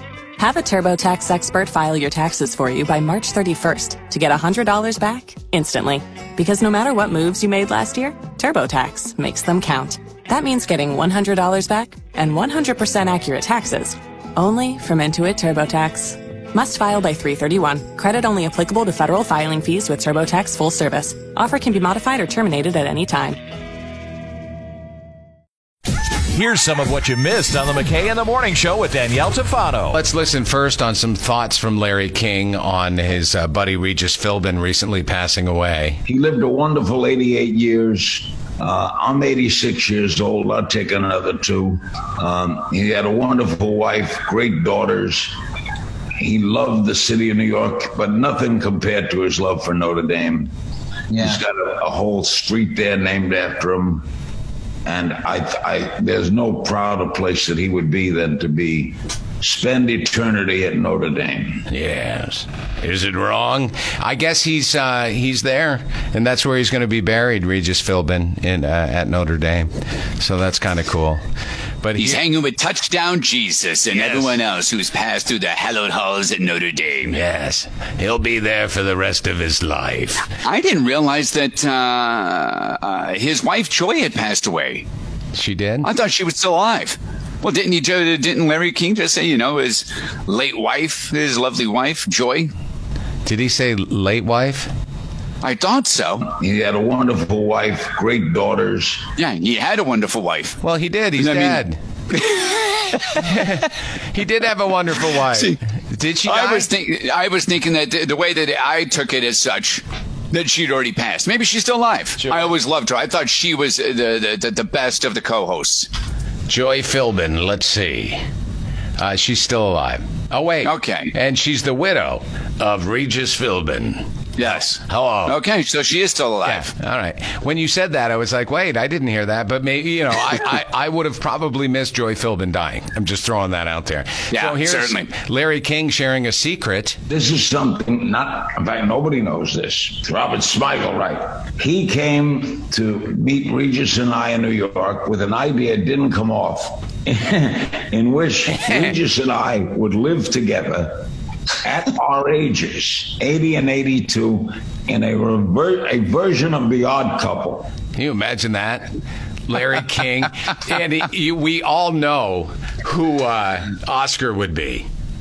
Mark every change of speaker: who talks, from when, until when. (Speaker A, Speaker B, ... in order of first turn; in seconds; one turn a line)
Speaker A: 0.4-23.4
Speaker B: 26.3-30.0
Speaker C: 29.9-36.0
Speaker D: 36.1-45.3
Speaker D: 46.2-50.5
Speaker D: 51.1-54.1
Speaker D: 54.9-61.6
Speaker C: 61.7-71.2
Speaker C: 71.8-72.2
Speaker E: 72.0-77.2
Speaker C: 77.1-80.3
Speaker E: 80.4-84.9
Speaker C: 85.3-85.9
Speaker E: 85.8-92.5
Speaker C: 93.2-94.7
Speaker E: 95.4-96.3
Speaker D: 96.3-99.1
Speaker E: 99.2-100.6
Speaker C: 100.6-101.8
Speaker E: 101.2-101.6
Speaker E: 102.2-103.0
Speaker C: 103.0-106.7
Speaker E: 105.2-105.6
Speaker E: 106.3-115.9
Speaker C: 116.5-118.2
Speaker C: 119.0-125.4
Speaker E: 120.6-121.1
Speaker E: 124.4-126.7
Speaker C: 126.5-137.0
Speaker E: 134.3-135.1
Speaker D: 137.1-151.0
Speaker D: 151.6-157.7
Speaker C: 158.0-159.0
Speaker C: 159.5-164.9